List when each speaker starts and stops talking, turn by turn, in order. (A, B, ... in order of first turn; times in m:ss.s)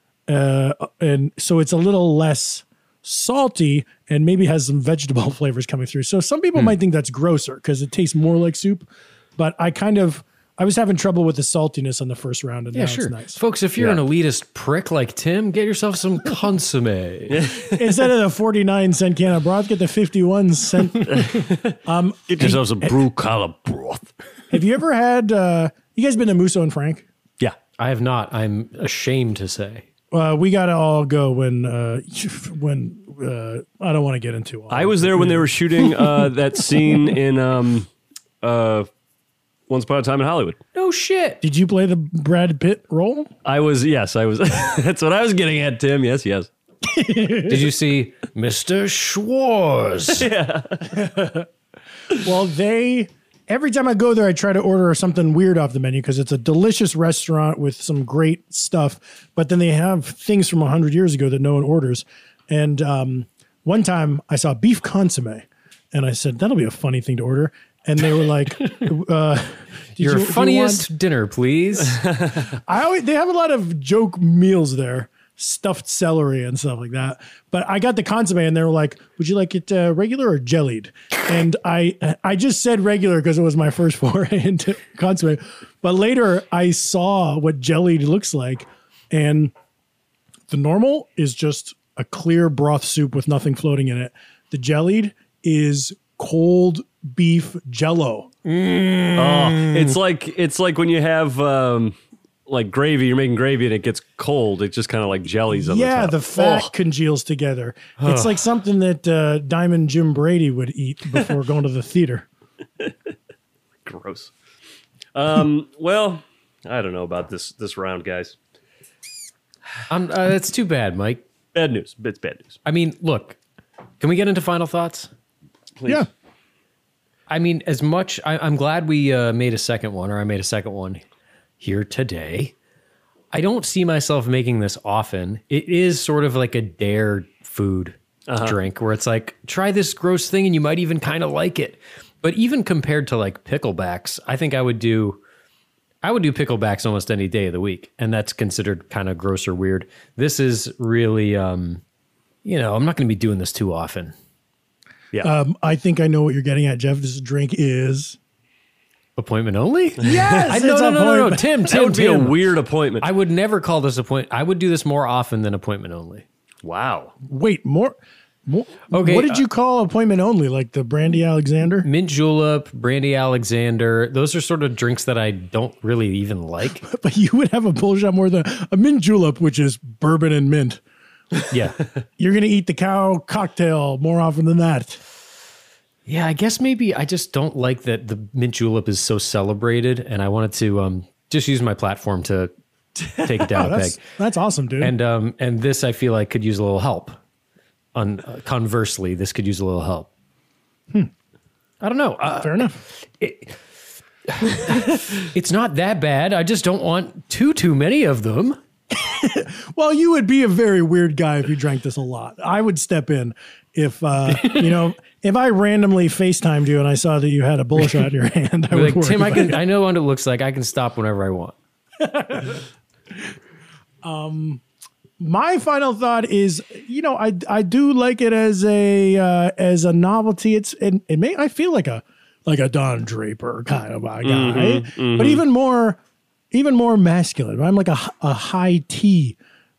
0:00.3-0:13.4 A
0:12.7-0:17.5 B
0:17.3-0:17.8 C
0:17.7-0:22.9 A
0:21.1-0:21.8 C
0:22.3-0:24.1 C
0:24.5-0:27.0 A
0:27.8-0:29.8 B
0:30.1-0:36.1 A
0:34.7-0:37.9 C
0:38.4-0:38.9 C
0:39.7-0:40.6 C
0:40.7-0:41.4 B
0:41.4-0:43.3 A
0:43.4-0:46.5 C
0:46.8-0:47.7 A
0:47.5-0:50.3 B
0:50.2-0:50.9 C
0:50.9-0:51.4 A
0:52.2-1:10.9 A
1:10.0-1:12.0 B
1:12.5-1:29.5 A
1:30.5-1:38.3 A
1:38.4-1:40.0 B
1:39.2-1:42.0 C
1:42.5-1:46.7 C
1:45.5-1:52.2 A
1:48.0-1:48.4 B
1:53.8-1:54.3 C
1:55.1-1:58.4 C
1:59.9-2:01.2 B
2:01.5-2:02.6 C
2:02.6-2:03.4 B
2:04.0-2:05.1 B
2:05.8-2:06.1 C
2:07.3-2:11.0 B
2:11.6-2:12.5 B
2:13.3-2:25.2 B
2:18.3-2:18.6 C
2:26.0-2:31.8 B
2:32.4-2:34.1 B
2:35.2-2:38.2 A
2:39.2-2:42.4 B
2:40.0-2:41.6 A
2:40.1-2:40.4 C
2:41.7-2:43.1 C
2:43.0-2:46.2 B
2:46.6-2:47.1 C
2:47.3-2:51.9 A
2:48.9-2:49.4 B
2:51.8-2:56.8 B
2:56.8-3:00.8 A
3:01.5-3:01.8 B
3:02.2-3:05.0 A
3:06.0-3:12.5 B
3:13.1-3:14.0 B
3:13.4-3:14.9 A
3:14.8-3:17.2 B
3:17.9-3:20.1 B
3:21.8-3:23.6 B
3:22.4-3:22.8 A
3:24.4-3:28.6 B
3:28.9-3:39.6 A
3:34.3-3:34.7 B
3:38.7-3:41.5 B
3:42.0-3:42.6 A
3:44.0-3:44.6 A
3:45.2-3:56.0 A
3:54.2-3:55.4 C
3:56.5-3:59.4 A